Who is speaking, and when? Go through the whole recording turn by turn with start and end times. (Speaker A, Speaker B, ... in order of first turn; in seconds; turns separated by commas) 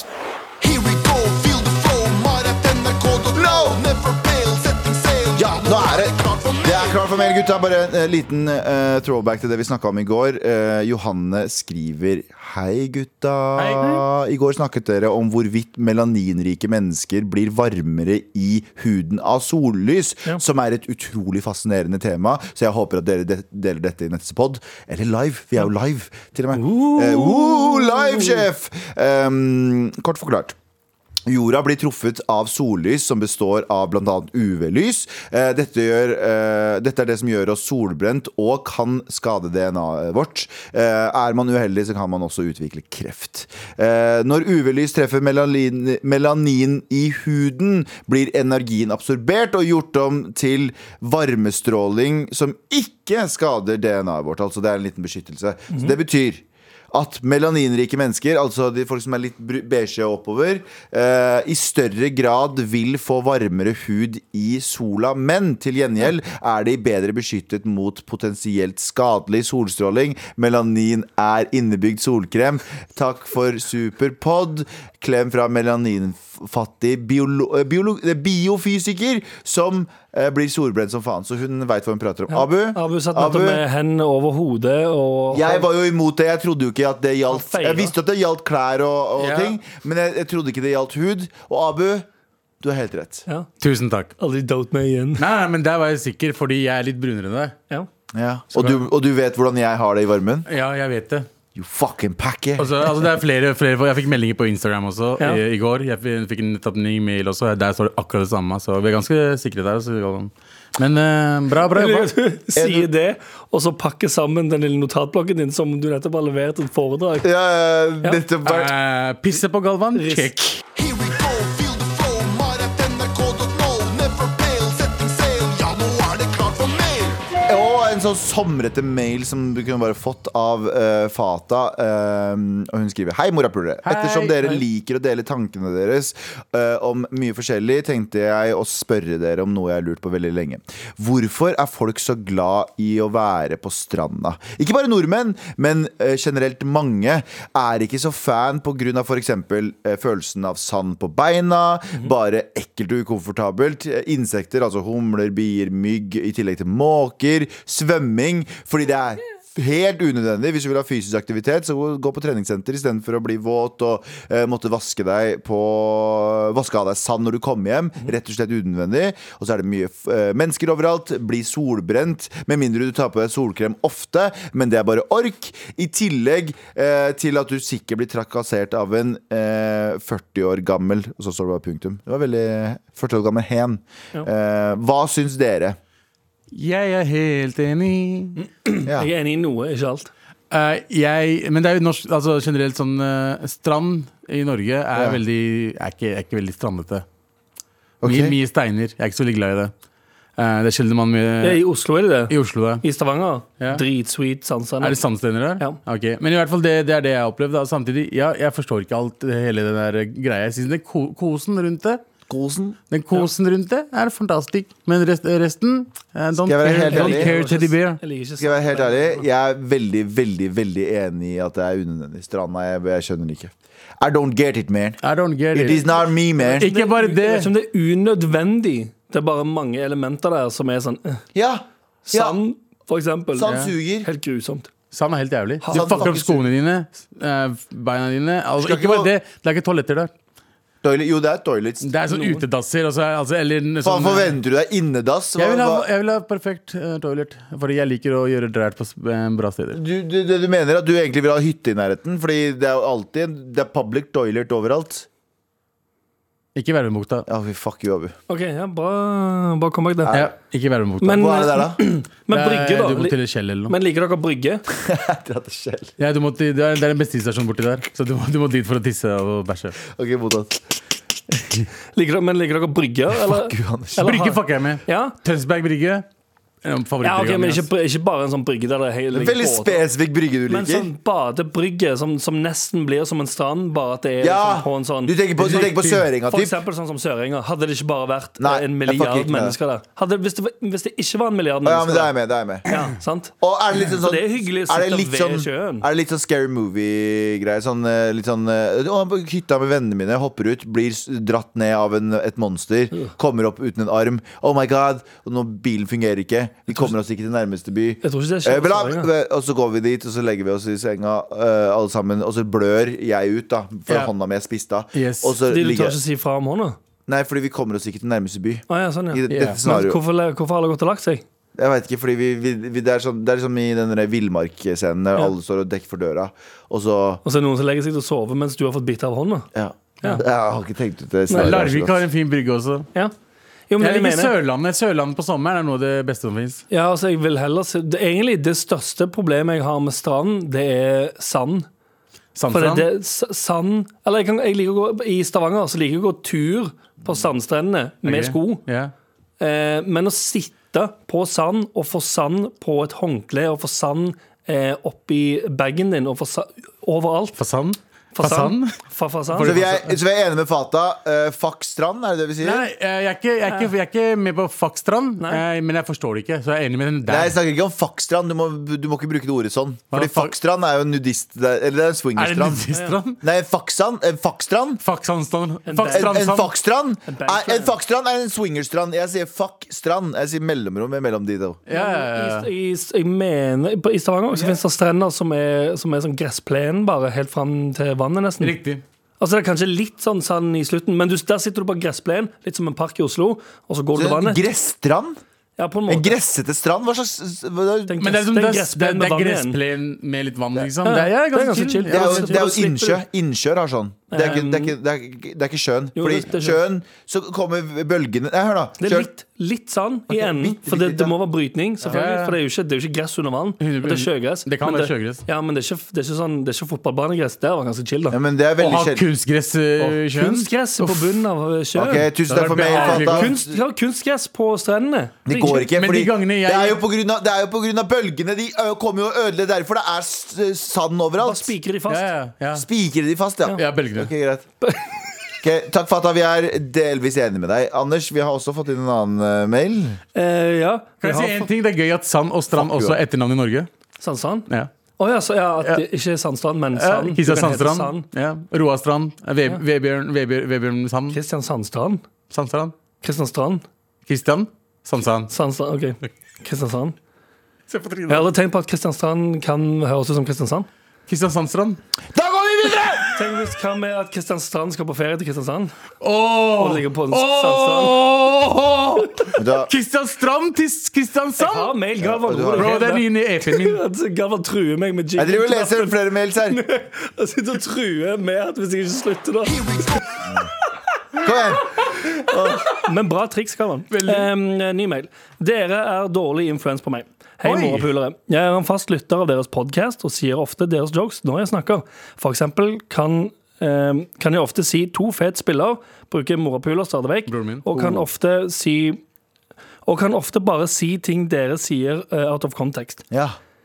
Speaker A: 0.6-30.6, Speaker B: 0.7-3.2, Speaker B: 3.8-5.3, Speaker C: 13.6-14.0, Speaker D: 26.6-28.4, Speaker A: 31.3-83.6, Speaker D: 82.3-85.7, Speaker A: 85.3-92.1, Speaker D: 87.3-87.9, Speaker C: 89.2-89.6, Speaker A: 92.6-93.2, Speaker C: 93.6-94.1, Speaker D: 94.2-95.2, Speaker C: 95.2-97.5, Speaker A: 98.1-100.5, Speaker C: 100.5-101.3, Speaker A: 101.5-102.9, Speaker C: 102.6-112.1, Speaker D: 111.7-117.3, Speaker A: 112.5-112.9, Speaker A: 117.2-118.7, Speaker C: 118.4-120.6, Speaker D: 120.0-120.3, Speaker A: 120.8-124.5, Speaker B: 121.0-127.2, Speaker A: 126.4-126.8, Speaker A: 127.3-185.8, Speaker C: 133.8-134.6, Speaker C: 186.5-188.4, Speaker D: 188.4-190.1, Speaker C: 190.5-197.1, Speaker A: 194.9-195.2, Speaker A: 198.0-198.4, Speaker C: 198.0-199.7, Speaker C: 200.4-201.6, Speaker D: 201.4-205.0, Speaker C: 202.3-202.8, Speaker C: 204.8-212.0, Speaker A: 212.3-212.8, Speaker C: 212.9-218.0, Speaker A: 216.4-217.3, Speaker D: 216.9-219.3, Speaker A: 218.4-225.0, Speaker C: 225.0-225.9, Speaker A: 225.5-226.7, Speaker D: 226.4-231.2, Speaker C: 226.5-227.5, Speaker A: 231.3-232.4, Speaker D: 232.1-234.7, Speaker A: 233.3-234.1, Speaker C: 233.5-233.7, Speaker C: 234.9-240.1, Speaker D: 235.6-236.2, Speaker A: 235.7-236.4, Speaker A: 238.6-239.1, Speaker A: 240.8-241.9, Speaker C: 241.8-244.4, Speaker D: 242.1-242.4, Speaker A: 243.8-245.9, Speaker C: 245.4-249.8, Speaker A: 249.7-255.1, Speaker C: 256.6-257.3, Speaker A: 257.3-258.1, Speaker D: 258.3-260.2, Speaker A: 260.1-260.3, Speaker C: 260.1-261.3, Speaker D: 261.0-263.2, Speaker A: 261.1-261.8, Speaker C: 262.3-263.7, Speaker D: 263.7-264.6, Speaker A: 264.7-265.9, Speaker C: 266.0-269.8, Speaker A: 269.9-270.6, Speaker D: 271.9-275.1, Speaker A: 273.1-274.1, Speaker C: 274.0-276.1, Speaker C: 276.6-277.7, Speaker D: 277.0-279.8, Speaker A: 279.1-280.9, Speaker D: 280.5-292.1, Speaker A: 284.2-286.6, Speaker C: 285.5-285.9, Speaker A: 288.4-289.6, Speaker A: 291.6-292.7, Speaker D: 292.7-295.9, Speaker A: 293.4-316.0, Speaker D: 308.0-309.1, Speaker C: 314.9-315.4, Speaker D: 315.5-316.8, Speaker A: 317.1-320.0, Speaker D: 318.7-321.2, Speaker C: 319.3-319.6, Speaker A: 321.6-327.2, Speaker D: 327.2-329.5, Speaker A: 329.5-331.9, Speaker C: 331.3-332.9, Speaker D: 333.7-334.3, Speaker C: 333.8-336.6, Speaker D: 336.7-341.7, Speaker C: 342.4-342.9, Speaker D: 342.5-348.6, Speaker C: 348.0-348.9, Speaker D: 349.4-357.4, Speaker C: 357.4-358.8, Speaker D: 358.1-359.6, Speaker C: 359.3-360.0, Speaker A: 359.4-362.7, Speaker C: 362.4-367.4, Speaker A: 367.1-372.7, Speaker C: 369.9-370.3, Speaker C: 372.2-373.2, Speaker D: 372.7-373.0, Speaker A: 373.2-374.8, Speaker C: 374.8-376.5, Speaker D: 375.7-376.3, Speaker A: 375.9-381.6, Speaker D: 377.1-377.8, Speaker C: 381.7-382.5, Speaker D: 381.7-388.6, Speaker C: 388.4-388.8, Speaker D: 389.2-394.4, Speaker A: 393.9-395.2, Speaker D: 395.6-396.2, Speaker A: 395.9-398.1, Speaker D: 397.9-399.6, Speaker C: 398.0-402.4, Speaker D: 400.8-403.0, Speaker A: 401.9-409.1, Speaker D: 404.1-404.7, Speaker D: 406.0-406.6, Speaker D: 408.8-418.2, Speaker A: 410.1-411.1, Speaker C: 411.9-412.4, Speaker C: 413.6-415.2, Speaker A: 418.1-419.1, Speaker C: 418.6-421.2, Speaker D: 419.8-422.1, Speaker A: 421.8-423.6, Speaker C: 422.3-423.4, Speaker D: 422.6-425.7, Speaker A: 425.3-431.5, Speaker C: 425.6-426.8, Speaker D: 431.2-432.1, Speaker C: 431.9-432.7, Speaker A: 432.5-434.5, Speaker C: 433.6-434.1, Speaker D: 434.6-434.9, Speaker A: 435.4-440.0, Speaker D: 440.1-441.5, Speaker C: 441.0-443.7, Speaker A: 442.5-443.0, Speaker D: 444.0-444.5, Speaker D: 445.0-448.1, Speaker C: 446.8-451.2, Speaker D: 451.1-452.0, Speaker C: 452.3-452.7, Speaker D: 453.0-453.6, Speaker C: 454.1-455.3, Speaker D: 455.3-457.0, Speaker C: 457.7-458.3, Speaker D: 458.1-460.7, Speaker C: 461.1-461.8, Speaker A: 462.1-463.2, Speaker D: 463.1-465.8, Speaker C: 466.0-471.7, Speaker D: 466.6-468.0, Speaker A: 469.4-469.7, Speaker D: 471.4-480.3, Speaker A: 472.0-472.8, Speaker C: 472.6-473.8, Speaker A: 475.2-476.6, Speaker A: 479.6-480.5, Speaker A: 481.2-481.8, Speaker D: 482.1-499.0, Speaker C: 483.9-484.3, Speaker C: 487.4-487.9, Speaker C: 497.3-498.0, Speaker D: 499.9-503.0, Speaker A: 503.1-503.4